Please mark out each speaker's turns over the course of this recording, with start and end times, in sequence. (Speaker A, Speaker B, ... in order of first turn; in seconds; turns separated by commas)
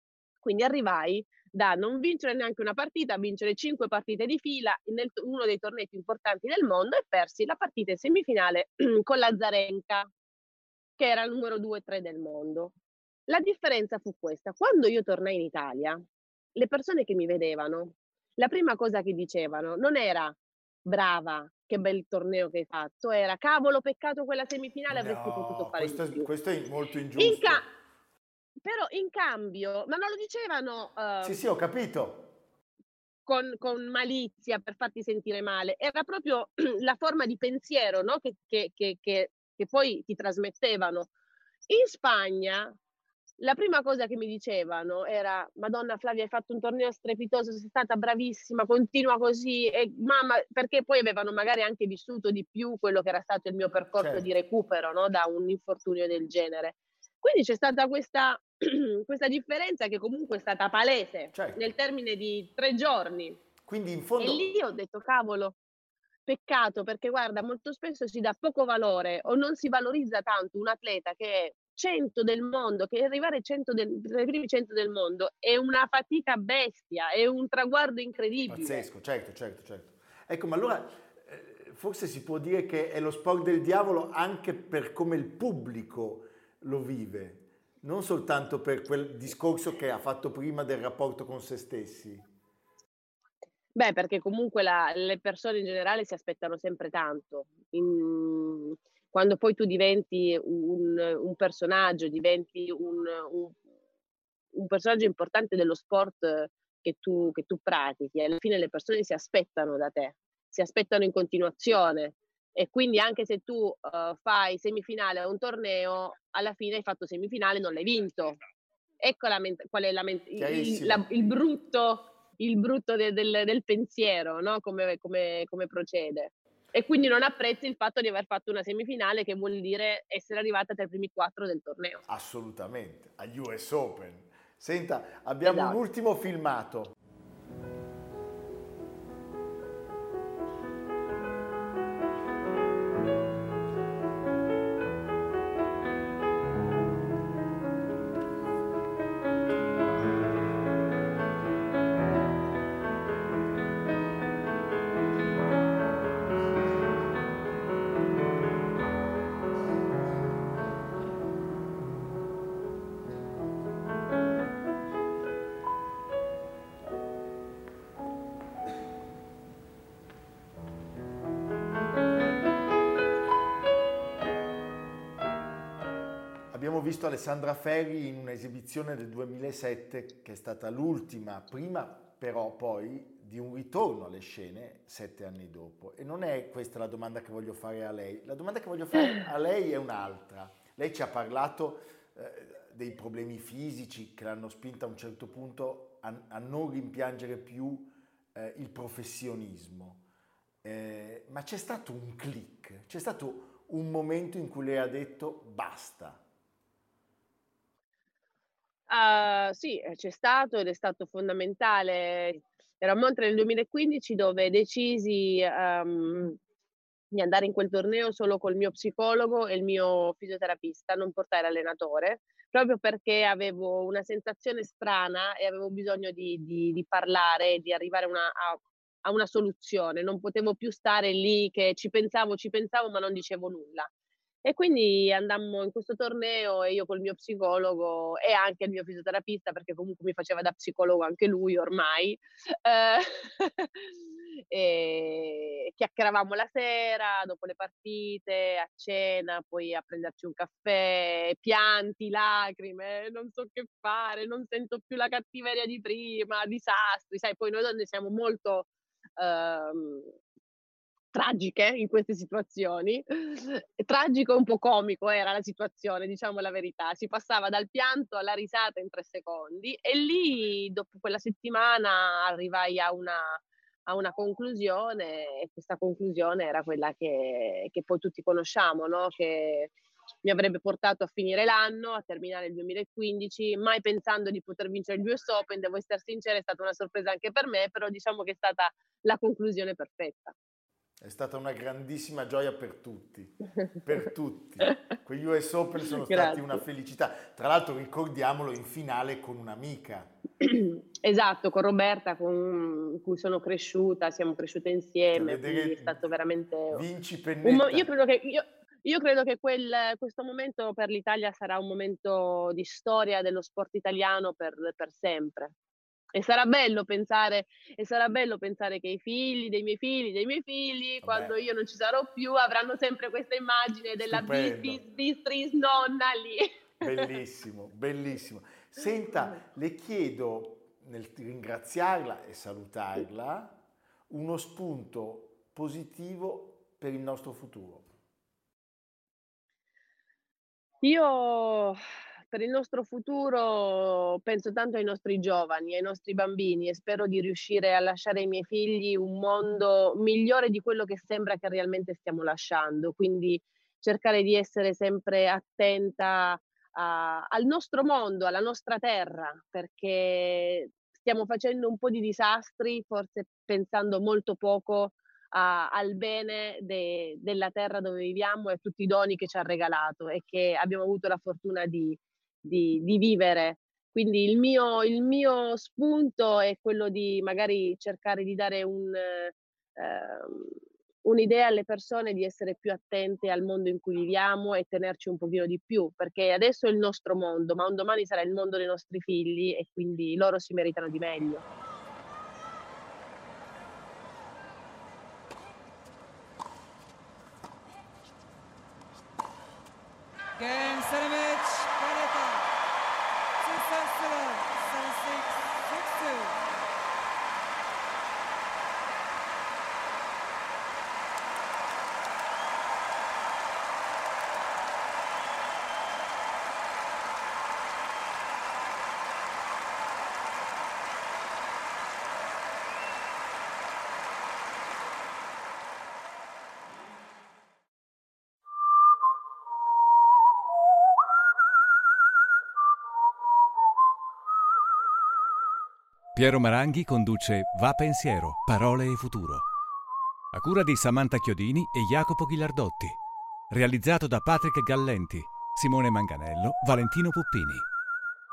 Speaker A: 0.4-10.1, Speaker A: 11.0-12.7, Speaker A: 13.3-16.0, Speaker A: 16.6-26.3, Speaker B: 24.9-27.6, Speaker A: 27.2-27.6, Speaker A: 28.6-31.4, Speaker B: 31.2-32.4, Speaker A: 33.3-41.1, Speaker A: 41.7-42.7, Speaker A: 43.4-63.4, Speaker B: 54.0-54.3, Speaker B: 61.3-61.7, Speaker B: 63.6-64.5, Speaker A: 64.2-65.6, Speaker A: 66.3-78.9, Speaker B: 78.5-92.3, Speaker A: 93.8-103.6, Speaker A: 104.5-118.4, Speaker A: 119.0-132.0, Speaker B: 120.4-121.0, Speaker B: 132.1-136.9, Speaker A: 135.4-135.8, Speaker B: 176.5-200.0, Speaker B: 200.6-206.2, Speaker A: 208.9-216.4, Speaker A: 217.1-233.9, Speaker A: 234.4-244.0, Speaker A: 244.5-260.1, Speaker A: 261.1-279.7, Speaker A: 280.2-290.3, Speaker B: 291.0-300.1, Speaker A: 296.1-296.6, Speaker A: 300.4-306.9, Speaker B: 305.1-306.0, Speaker B: 306.7-307.9, Speaker A: 307.4-315.5, Speaker A: 316.1-327.0, Speaker B: 321.0-321.4, Speaker B: 324.0-324.8, Speaker B: 326.8-337.9, Speaker A: 340.8-341.8, Speaker A: 342.3-391.4, Speaker C: 400.4-402.5, Speaker C: 403.4-406.4, Speaker D: 436.1-439.5, Speaker D: 440.3-443.0, Speaker D: 443.5-447.7